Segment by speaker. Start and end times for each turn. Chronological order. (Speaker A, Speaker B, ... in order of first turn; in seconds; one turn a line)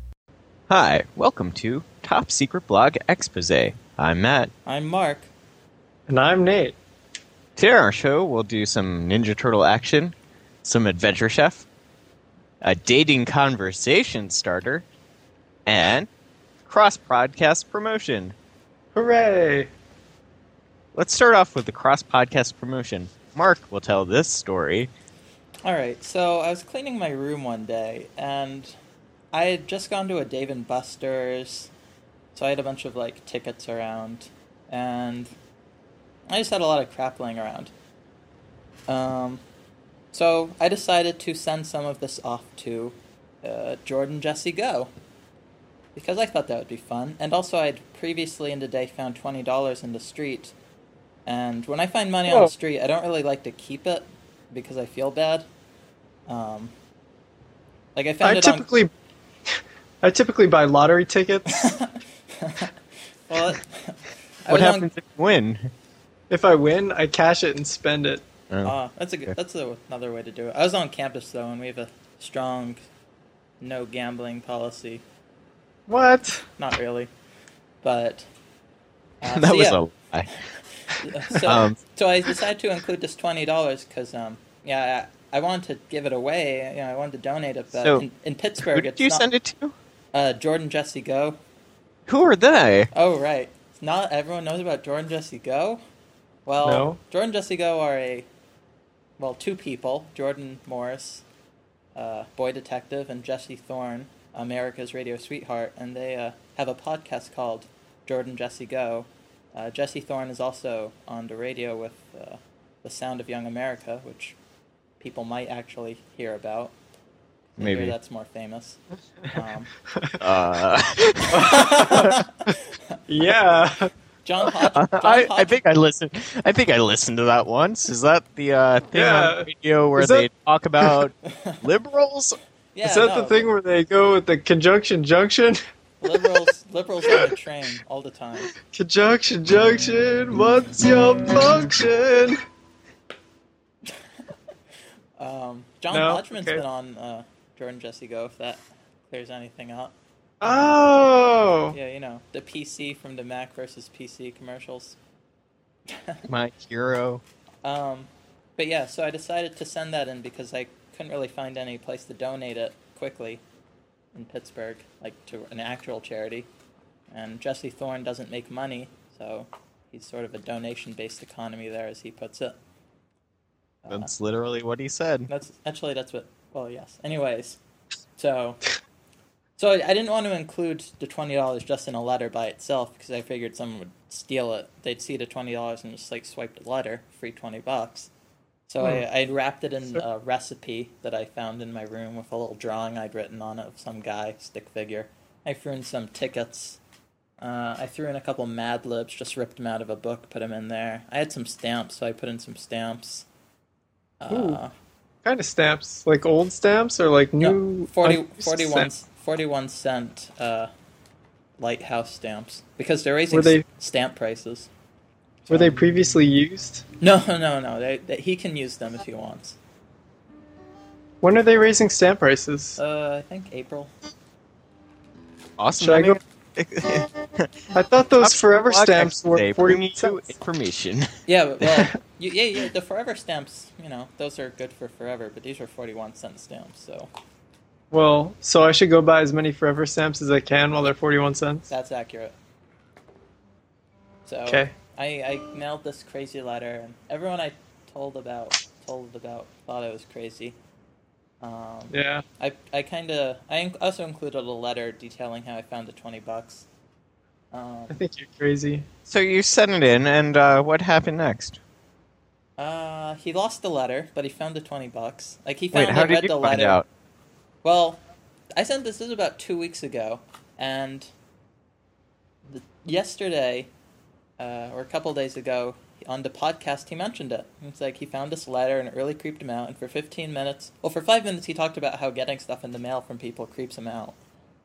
Speaker A: 0.7-4.5
Speaker B: 4.7-5.3
Speaker C: 6.1-6.8
Speaker A: 7.5-11.7
Speaker A: 12.6-14.8
Speaker A: 15.7-16.1
Speaker A: 16.6-18.3
Speaker C: 18.9-19.7
Speaker A: 20.9-24.9
Speaker B: 25.6-28.8
Speaker B: 29.3-31.7
Speaker B: 32.3-35.3
Speaker B: 36.3-37.7
Speaker B: 38.9-39.4
Speaker B: 40.1-44.9
Speaker B: 46.0-50.5
Speaker B: 51.2-55.5
Speaker C: 52.3-52.5
Speaker B: 56.3-56.7
Speaker B: 58.0-58.7
Speaker C: 58.2-58.9
Speaker C: 60.0-61.7
Speaker B: 61.5-62.7
Speaker B: 63.3-64.9
Speaker A: 64.5-65.7
Speaker C: 66.3-68.2
Speaker B: 68.6-72.8
Speaker B: 73.6-75.0
Speaker C: 75.9-76.5
Speaker B: 76.6-77.1
Speaker B: 77.8-78.3
Speaker B: 79.2-79.8
Speaker A: 79.3-80.3
Speaker B: 80.8-89.3
Speaker A: 81.3-81.8
Speaker A: 87.7-88.0
Speaker A: 88.7-89.7
Speaker B: 90.1-91.4
Speaker A: 92.1-92.9
Speaker B: 92.9-95.8
Speaker B: 96.5-98.3
Speaker C: 96.6-97.0
Speaker B: 99.2-101.2
Speaker B: 102.0-114.3
Speaker B: 115.0-116.7
Speaker A: 117.6-117.9
Speaker B: 117.6-118.8
Speaker B: 119.3-119.7
Speaker C: 119.9-120.2
Speaker A: 120.2-122.2
Speaker B: 121.3-123.0
Speaker C: 123.1-123.9
Speaker B: 124.2-125.6
Speaker A: 124.7-132.4
Speaker C: 128.9-130.3
Speaker B: 131.3-131.6
Speaker B: 132.7-133.5
Speaker C: 132.8-135.6
Speaker B: 136.0-138.5
Speaker C: 136.1-136.4
Speaker C: 138.7-142.4
Speaker B: 145.2-150.8
Speaker C: 145.9-146.6
Speaker C: 150.4-151.8
Speaker B: 151.7-155.0
Speaker B: 155.9-156.3
Speaker A: 156.3-157.2
Speaker B: 157.6-163.4
Speaker B: 164.1-166.5
Speaker B: 167.1-172.6
Speaker B: 173.8-174.1
Speaker A: 173.9-175.3
Speaker B: 175.3-177.6
Speaker B: 178.2-178.6
Speaker B: 179.6-188.1
Speaker B: 188.7-196.8
Speaker B: 197.4-203.2
Speaker B: 204.2-204.7
Speaker C: 204.3-204.6
Speaker C: 205.2-208.9
Speaker B: 207.4-210.7
Speaker B: 211.6-214.7
Speaker C: 213.3-213.6
Speaker B: 215.5-215.8
Speaker C: 215.5-216.8
Speaker B: 217.0-219.6
Speaker C: 221.2-222.8
Speaker B: 222.8-223.9
Speaker A: 225.6-227.5
Speaker C: 225.8-226.2
Speaker C: 227.7-230.2
Speaker A: 228.2-231.1
Speaker B: 231.3-237.1
Speaker C: 237.9-241.7
Speaker B: 241.7-242.3
Speaker B: 244.2-250.6
Speaker C: 244.5-244.7
Speaker B: 251.4-256.6
Speaker C: 251.9-252.2
Speaker B: 257.5-258.0
Speaker C: 257.9-258.8
Speaker A: 259.1-261.6
Speaker B: 262.6-266.8
Speaker A: 265.7-266.9
Speaker B: 267.6-268.0
Speaker B: 268.5-271.1
Speaker B: 272.5-273.7
Speaker B: 274.4-284.1